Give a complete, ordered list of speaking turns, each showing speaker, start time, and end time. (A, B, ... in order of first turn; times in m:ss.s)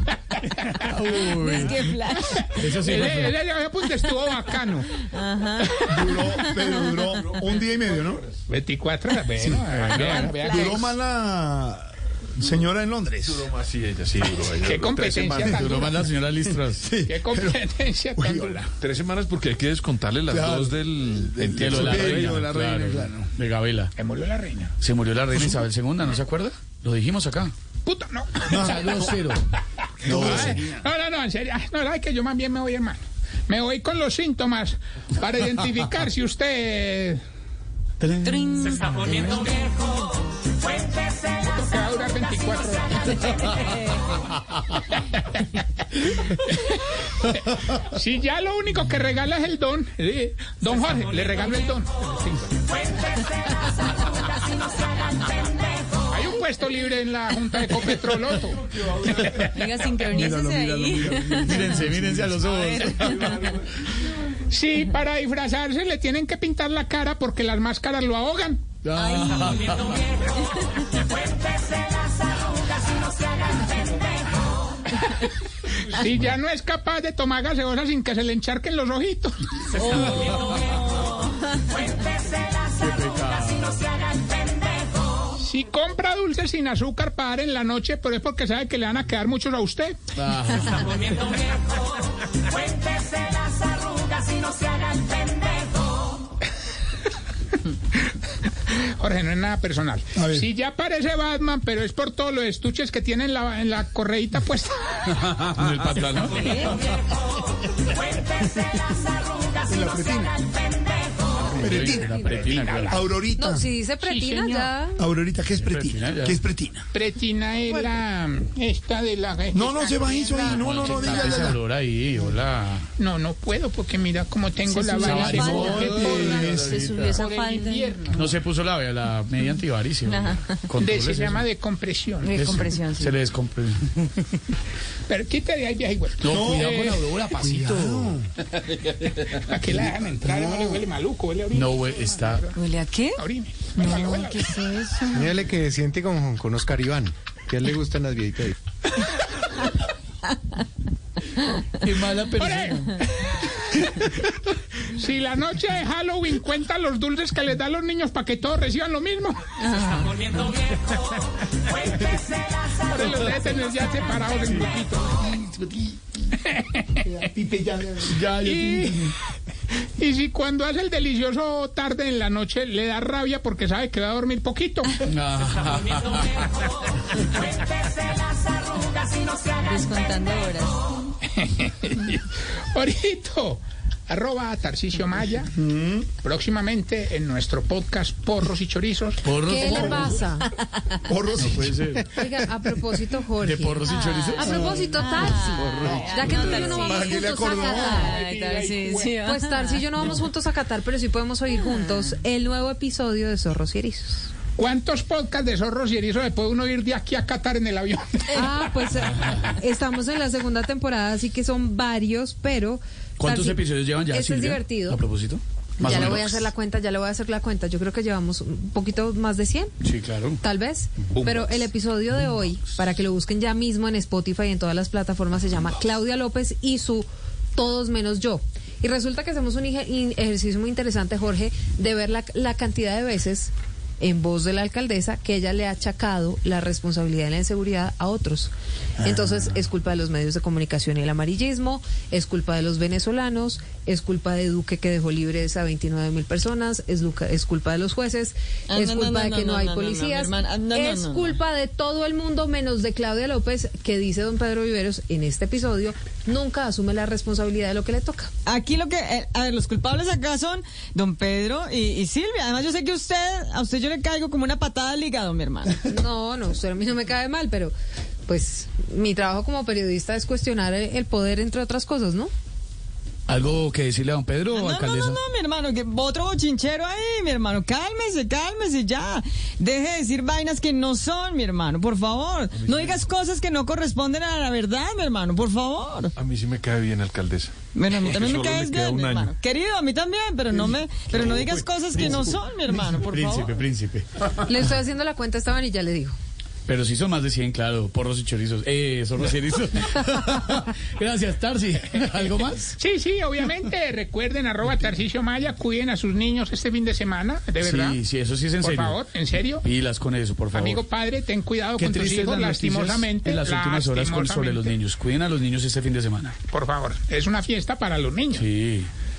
0:00.9-0:01.9 A
0:01.2-0:02.5 B
0:02.1-0:05.0 C
0:02.5-0:03.4 A
0:05.0-0:07.2 B
0:05.8-0:06.2 C
0:05.9-0:08.3 D
0:07.8-0:08.2 E
0:08.5-0:10.9 C
0:09.4-0:09.8 D
0:09.8-0:10.9 B
0:09.8-0:10.2 A
0:10.4-0:13.5 D
0:13.2-0:15.9 E
0:14.6-0:16.0 C
0:15.4-0:15.7 D
0:15.5-0:16.9 A
0:16.4-0:18.6 D
0:17.1-0:18.7 C
0:18.8-0:22.5 E
0:20.3-0:23.3 D
0:21.5-0:23.9 A
0:24.0-0:24.7 C
0:24.8-0:27.5 A
0:25.3-0:25.6 D
0:27.9-0:29.1 C
0:28.5-0:28.8 D
0:28.6-0:29.4 A
0:30.0-0:30.8 D
0:30.0-0:30.5 A
0:30.0-0:37.2 C
0:38.0-0:39.3 A
0:38.2-0:39.9 B
0:41.4-0:43.6 C
0:43.6-0:44.1 B
0:45.0-0:52.6 C
0:56.1-0:59.5 C
0:59.0-0:59.5 D
0:59.5-1:02.0 B
1:00.1-1:02.4 D
1:01.4-1:03.6 A
1:02.6-1:03.5 B
1:04.5-1:08.6 C
1:08.8-1:10.0 A
1:15.8-1:20.4 C
1:19.7-1:21.6 B
1:19.9-1:20.4 A
1:22.7-1:24.0 A
1:25.4-1:30.0 C
1:30.2-1:31.1 A
1:38.7-1:45.1 C
1:40.1-1:40.5 D
1:45.2-1:46.8 A
1:49.6-1:50.4 D
1:51.6-1:53.0 A
1:51.6-1:52.2 D
1:51.9-1:52.5 F
1:52.2-1:53.0 C
1:52.9-1:53.7 D
1:53.4-1:55.0 F
1:54.0-1:54.7 C
1:55.0-1:56.9 D
1:55.6-1:56.4 A
1:56.9-2:01.5 C
1:59.5-2:01.6 D
2:00.5-2:02.9 A
2:03.0-2:06.5 C
2:04.6-2:08.1 B
2:05.0-2:07.2 A
2:05.0-2:07.0 D
2:07.1-2:08.3 C
2:08.1-2:11.4 A
2:10.0-2:10.6 B
2:10.8-2:12.4 C
2:12.2-2:13.2 B
2:12.4-2:14.2 A
2:15.1-2:17.1 C
2:16.2-2:18.2 A
2:16.3-2:16.8 D
2:17.4-2:18.2 D
2:19.2-2:22.6 C
2:20.2-2:20.8 D
2:21.5-2:22.5 A
2:22.5-2:23.2 B
2:23.2-2:24.5 C
2:23.8-2:25.4 B
2:25.1-2:28.6 G
2:31.8-2:32.9 A
2:32.4-2:34.1 C
2:34.9-2:39.4 C
2:39.6-2:40.3 B
2:42.8-2:45.2 C
2:45.2-2:46.0 D
2:46.4-2:47.0 C
2:47.0-2:48.8 D
2:48.1-2:49.0 A
2:48.4-2:49.1 C
2:50.0-2:55.0 C
2:55.0-2:56.4 A
2:59.4-3:00.9 B
3:01.4-3:05.5 C
3:05.6-3:06.1 D
3:06.2-3:09.3 C
3:09.2-3:10.2 A
3:09.4-3:10.5 F
3:09.6-3:10.2 D
3:11.1-3:12.0 D
3:11.4-3:12.1 A
3:12.1-3:18.2 F
3:13.4-3:14.6 A
3:13.8-3:17.4 B
3:14.4-3:18.1 D
3:15.6-3:16.8 A
3:17.5-3:19.2 C
3:17.9-3:20.2 B
3:19.2-3:24.3 F
3:21.6-3:22.1 B
3:24.6-3:28.6 C
3:28.3-3:35.0 F
3:33.2-3:36.5 A
3:35.8-3:39.7 F
3:39.8-3:40.4 A
3:40.4-4:18.3 F
3:41.1-3:41.7 C
4:08.7-4:11.4 B
4:18.4-4:25.9 B
4:25.8-4:27.7 F
4:28.3-4:32.3 F
4:33.3-4:35.2 A
4:34.5-4:46.1 B
4:42.6-4:43.1 E
4:46.2-4:49.4 E
4:47.7-4:53.6 B
4:51.1-4:52.3 A
4:53.0-4:54.0 A
4:54.4-4:56.1 F
4:56.7-5:02.8 A
5:02.8-5:08.0 C
5:07.6-5:09.0 A
5:08.6-5:09.6 C
5:09.6-5:10.8 A
5:10.5-5:14.7 C
5:11.8-5:16.4 A
5:16.5-5:18.5 C
5:18.3-5:18.9 A